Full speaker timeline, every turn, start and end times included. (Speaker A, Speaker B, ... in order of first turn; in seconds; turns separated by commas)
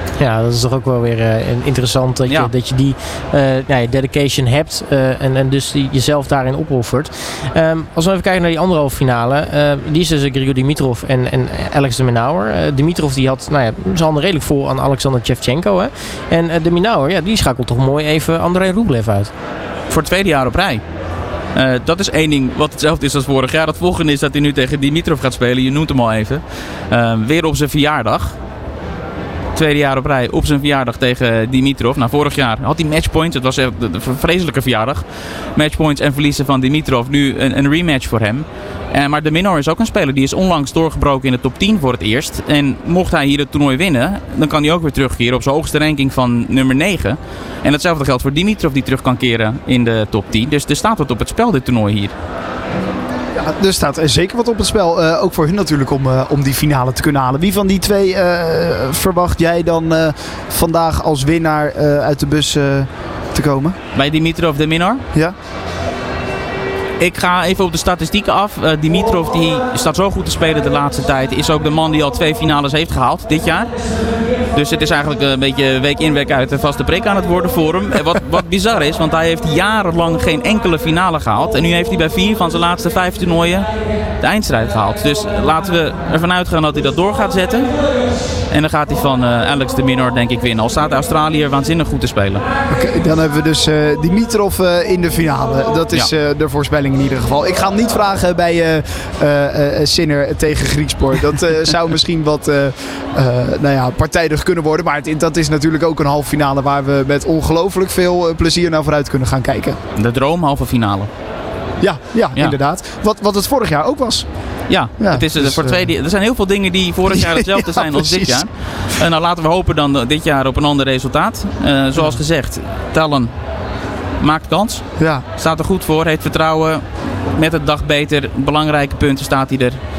Speaker A: 0.2-19.3, Speaker B: 19.9-20.8, Speaker B: 21.5-28.4, Speaker B: 29.5-52.1, Speaker C: 53.3-63.8, Speaker B: 64.0-65.0, Speaker B: 67.0-73.7, Speaker B: 74.5-83.7, Speaker B: 84.2-87.7, Speaker B: 88.5-92.4, Speaker C: 92.7-109.8, Speaker B: 110.0-111.1, Speaker C: 111.8-114.3, Speaker B: 114.7-123.3, Speaker C: 115.0-115.9, Speaker C: 117.1-118.4, Speaker B: 124.2-129.8, Speaker C: 125.0-125.2